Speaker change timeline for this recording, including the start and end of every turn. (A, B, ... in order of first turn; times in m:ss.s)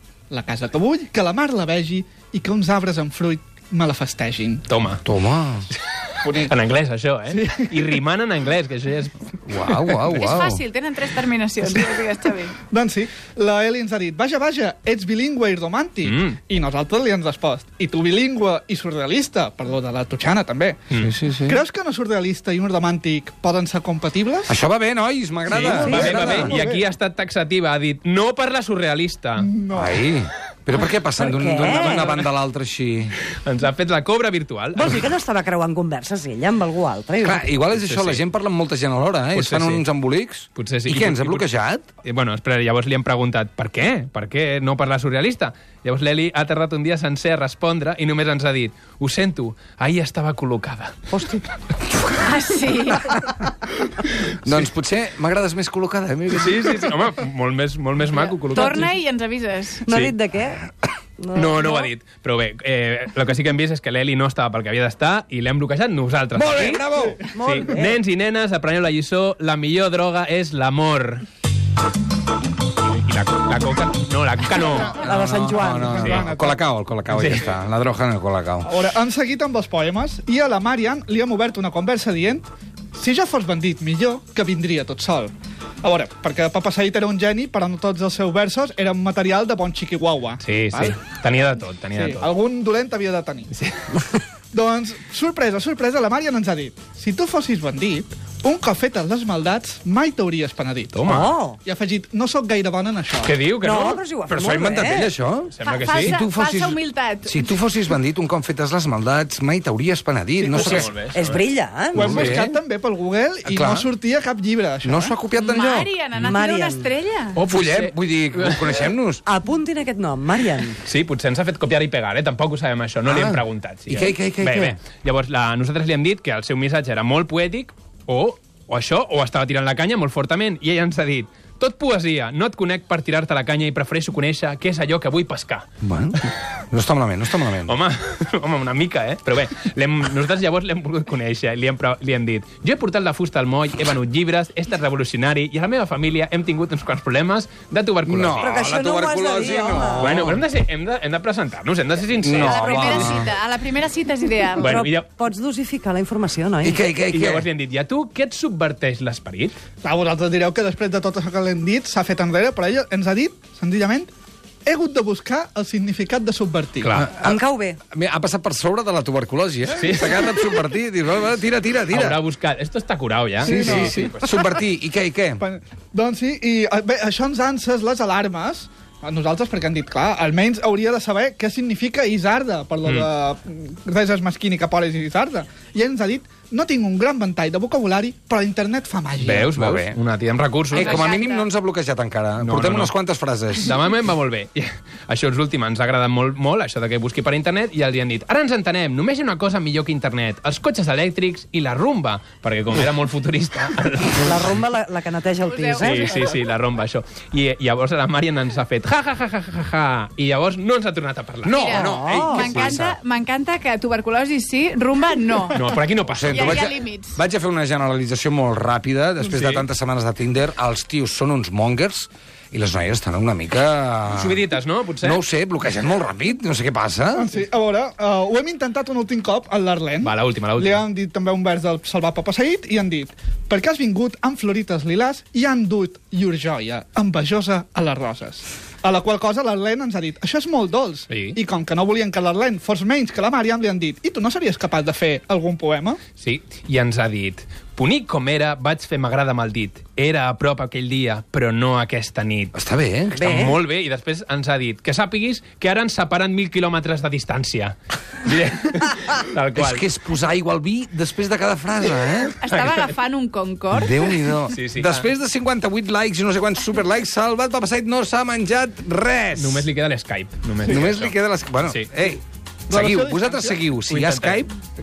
0:00.3-0:04.6 A
0:04.7-0:05.0 B
0:05.0-0:05.7 C
0:06.2-0:06.5 A
0:06.2-0:10.1 B
0:07.3-0:07.9 A
0:09.4-0:10.6 C
0:10.1-0:12.6 D
0:12.7-0:20.8 A
0:16.0-0:16.4 B
0:21.0-0:21.6 C
0:21.4-0:24.5 A
0:24.5-0:26.6 C
0:25.5-0:29.5 B
0:25.6-0:26.5 E
0:25.8-0:26.8 A
0:29.4-0:30.0 A
0:29.7-0:33.1 C
0:31.2-0:32.2 E
0:31.8-0:32.2 B
0:33.3-0:35.1 B
0:34.8-0:37.4 E
0:37.2-0:41.9 C
0:37.7-0:38.2 B
0:39.3-0:39.8 B
0:40.5-0:41.5 B
0:42.0-0:51.1 B
0:51.1-0:51.4 E
0:52.2-0:53.2 D
0:54.4-0:56.9 C
0:56.3-0:58.9 B
0:58.1-0:59.8 D
0:58.5-0:58.9 E
0:59.8-1:00.6 E
0:59.9-1:00.2 B
1:01.2-1:01.9 E
1:01.3-1:06.8 B
1:06.3-1:07.2 C
1:07.3-1:08.0 E
1:07.4-1:11.2 B
1:12.8-1:14.9 B
1:14.6-1:16.6 A
1:15.0-1:16.1 E
1:15.0-1:18.7 C
1:16.0-1:16.3 B
1:17.1-1:17.5 B
1:18.6-1:30.9 A
1:30.4-1:32.3 B
1:31.9-1:33.5 A
1:33.5-1:34.0 B
1:34.5-1:41.0 A
1:40.9-1:41.3 B
1:41.0-1:41.6 E
1:41.6-1:43.3 A
1:43.2-1:44.0 B
1:43.6-1:45.1 E
1:44.3-1:50.9 C
1:45.5-1:46.2 B
1:45.6-1:47.6 D
1:50.4-1:50.9 A
1:50.5-1:51.4 B
1:51.1-1:52.4 E
1:51.9-1:52.5 C
1:51.9-1:55.2 A
1:53.4-1:53.9 C
1:54.8-1:55.9 C
1:55.3-1:57.4 D
1:56.2-1:56.9 E
1:57.4-1:58.9 B
1:57.5-1:59.2 C
1:59.2-2:00.8 E
2:00.8-2:15.7 B
2:03.0-2:04.8 C
2:15.8-2:16.2 C
2:16.7-2:17.8 C
2:17.6-2:28.5 B
2:28.0-2:30.4 C
2:28.4-2:30.1 E
2:30.0-2:33.2 B
2:32.2-2:33.3 C
2:32.3-2:34.7 D
2:34.6-2:35.1 B
2:34.6-2:36.8 E
2:36.6-2:37.4 C
2:37.1-2:39.6 B
2:39.8-2:44.1 A
2:44.6-2:47.0 A
2:46.8-2:47.1 B
2:46.9-2:52.2 C
2:47.2-2:47.8 E
2:49.7-2:50.4 B
2:51.9-2:54.4 B
2:53.4-2:54.2 A
2:53.4-2:55.4 C
2:55.4-3:09.5 A
3:09.2-3:11.1 B
3:09.5-3:10.0 C
3:10.7-3:13.8 C
3:10.8-3:11.5 D
3:12.4-3:12.9 B
3:13.6-3:24.6 B
3:24.2-3:26.1 E
3:25.4-3:26.4 D
3:25.8-3:31.9 B
3:31.5-3:37.2 D
3:31.5-3:33.0 C
3:31.8-3:32.6 E
3:35.5-3:36.6 B
3:36.1-3:44.4 C
3:39.2-3:39.6 B
3:44.1-3:45.2 B
3:45.0-3:47.3 C
3:47.1-4:06.0 A
3:50.0-3:50.8 B
4:01.1-4:01.4 B
4:06.2-4:12.5 B
4:12.5-4:13.5 C
4:13.2-4:19.8 B
4:13.2-4:13.6 E
4:19.5-4:22.4 C
4:22.4-4:24.3 D
4:22.5-4:22.9 B
4:23.7-4:29.6 C
4:24.5-4:25.1 B
4:29.3-4:31.9 B
4:30.7-4:34.5 C
4:32.7-4:33.6 A
4:33.9-4:34.4 B